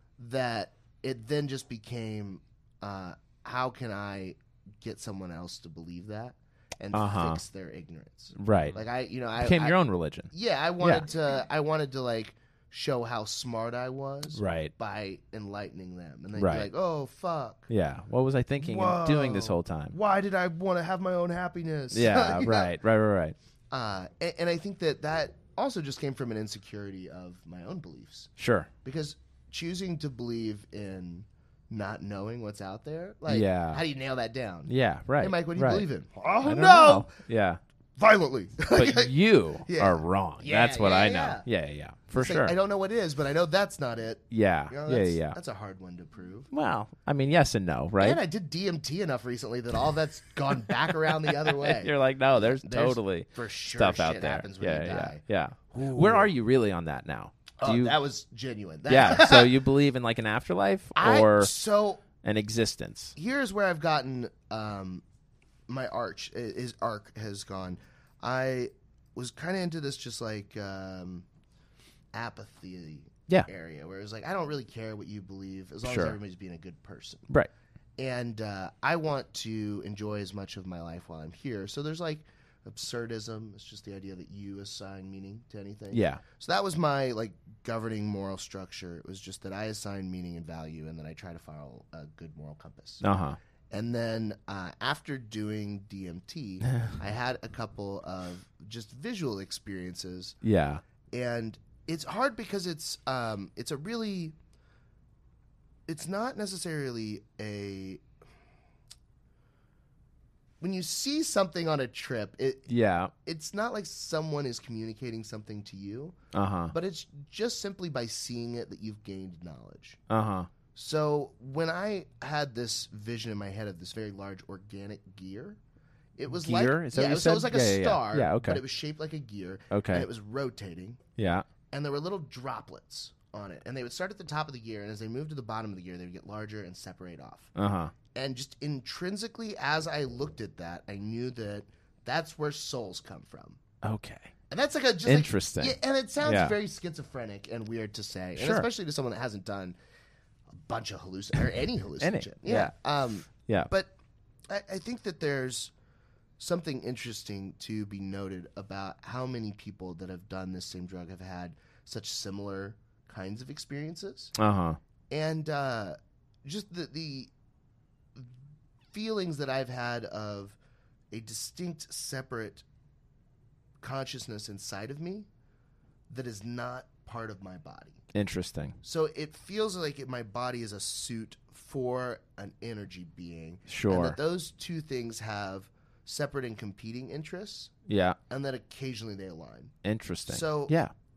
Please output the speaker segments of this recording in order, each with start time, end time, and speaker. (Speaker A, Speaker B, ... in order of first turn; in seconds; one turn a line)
Speaker A: 0.2-9.8
Speaker B: 6.9-7.4
Speaker B: 8.3-8.8
Speaker B: 9.4-11.1
Speaker A: 10.3-17.7
Speaker B: 14.3-14.7
Speaker B: 16.4-16.7
Speaker B: 17.7-20.0
Speaker A: 18.6-22.8
Speaker B: 21.9-23.4
Speaker A: 23.7-28.3
Speaker B: 28.4-28.7
Speaker A: 28.9-37.1
Speaker B: 33.3-33.8
Speaker B: 34.7-35.9
Speaker B: 36.4-37.6
Speaker A: 38.0-41.5
Speaker B: 38.7-42.5
Speaker A: 42.1-46.5
Speaker B: 44.3-45.4
Speaker B: 46.5-48.2
Speaker A: 48.0-56.3
Speaker B: 51.5-58.0
Speaker A: 57.6-59.5
Speaker B: 58.9-61.5
Speaker A: 61.0-62.0
Speaker B: 62.2-63.1
Speaker A: 63.2-65.0
Speaker A: 65.7-71.3
Speaker A: 72.1-77.3
Speaker B: 75.8-76.2
Speaker A: 78.0-93.0
Speaker B: 85.9-86.2
Speaker B: 93.0-93.4
Speaker A: 93.7-100.4
Speaker B: 100.4-100.8
Speaker A: 101.1-104.3
Speaker A: 105.9-108.1
Speaker A: 110.6-112.7
Speaker B: 112.7-113.1
Speaker A: 113.2-116.2
Speaker B: 116.3-116.8
Speaker A: 116.7-120.0
Speaker B: 120.1-120.5
Speaker A: 120.8-125.6
Speaker A: 126.2-131.0
Speaker B: 126.3-128.6
Speaker B: 129.7-130.1
Speaker B: 131.2-131.5
Speaker A: 131.7-137.5
Speaker B: 137.6-137.9
Speaker A: 138.1-143.6
Speaker B: 143.8-144.3
Speaker A: 144.5-149.8
Speaker B: 145.1-146.6
Speaker B: 148.4-148.7
Speaker A: 150.5-153.9
Speaker B: 152.0-152.7
Speaker B: 153.3-153.7
Speaker A: 154.5-155.7
Speaker A: 156.4-164.3
Speaker B: 164.4-164.8
Speaker A: 165.1-167.3
Speaker A: 168.9-170.6
Speaker A: 171.1-172.6
Speaker A: 173.8-175.3
Speaker A: 176.1-178.0
Speaker B: 178.1-178.8
Speaker A: 178.8-187.7
Speaker B: 183.7-184.2
Speaker B: 187.9-188.2
Speaker A: 188.3-189.7
Speaker B: 189.8-190.9
Speaker A: 190.3-190.8